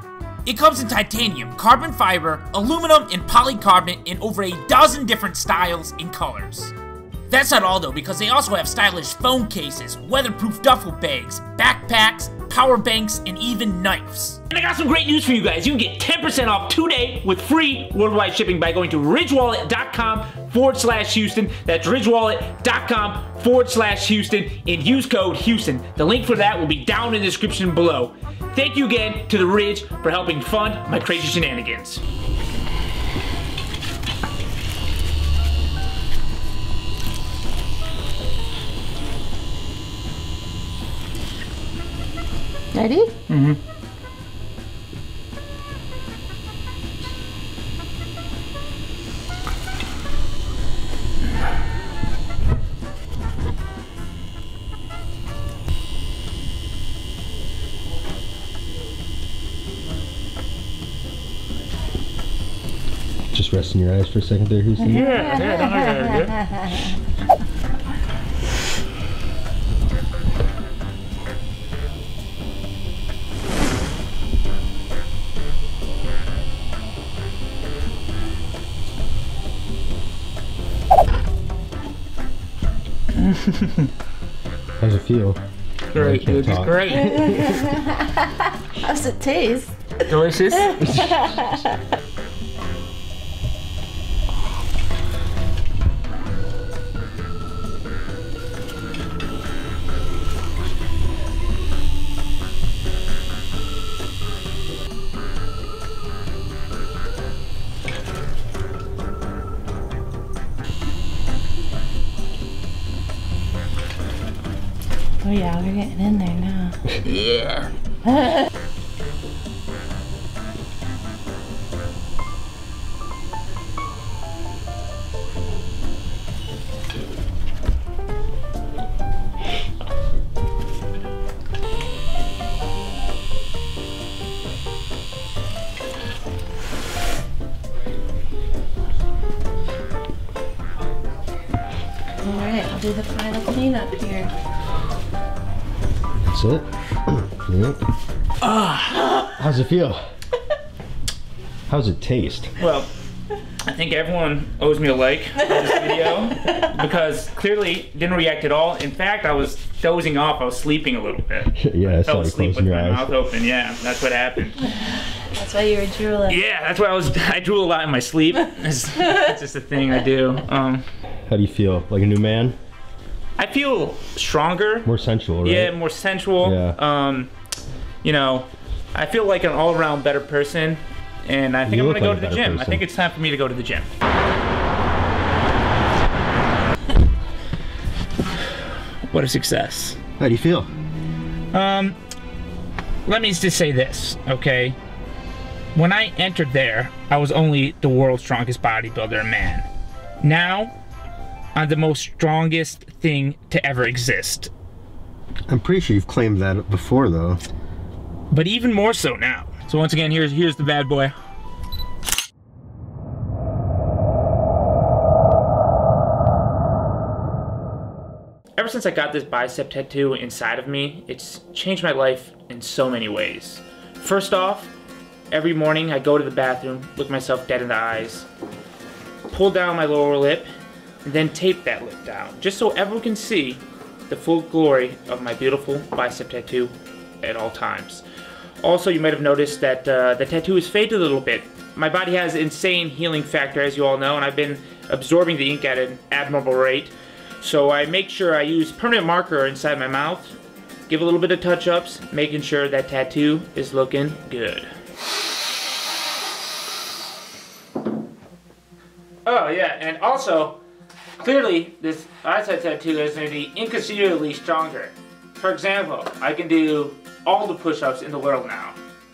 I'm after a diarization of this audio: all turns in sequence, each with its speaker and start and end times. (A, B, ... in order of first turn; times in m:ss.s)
0:00.4-0:06.7 A
0:07.3-0:32.0 A
0:42.7-0:43.1 B
0:43.3-0:43.6 A
1:03.3-1:05.1 C
1:04.9-1:06.9 A
1:23.2-1:23.9 A
1:24.8-1:25.4 C
1:25.9-1:27.5 A
1:26.0-1:27.5 C
1:28.8-1:29.7 B
1:30.0-1:30.9 A
1:55.2-1:56.8 B
1:57.1-1:57.7 A
2:22.2-2:24.3 B
2:26.3-2:27.8 C
2:28.4-2:29.2 A
2:29.3-2:30.0 C
2:31.7-2:32.5 C
2:32.6-2:32.9 A
2:33.6-2:44.7 A
2:41.6-2:43.1 C
2:45.3-2:46.4 B
2:46.3-2:50.9 A
2:51.3-2:52.6 C
2:53.4-2:54.9 A
2:54.9-2:55.8 C
2:55.4-2:57.3 A
2:56.4-2:56.8 C
2:58.0-3:03.9 A
3:01.6-3:02.8 C
3:09.1-3:10.0 A
3:10.2-3:10.7 C
3:11.5-3:12.0 A
3:13.1-3:14.8 A
3:15.7-3:19.7 A
3:20.2-3:20.7 A
3:21.6-3:24.5 A
3:25.5-3:27.4 C
3:28.3-3:31.1 A
3:38.6-3:44.7 A
3:45.3-3:48.3 A
3:49.3-3:50.5 A
3:51.0-3:58.0 A
3:58.6-4:10.4 A
4:10.9-4:14.7 A
4:19.3-4:20.6 A
4:21.2-4:28.8 A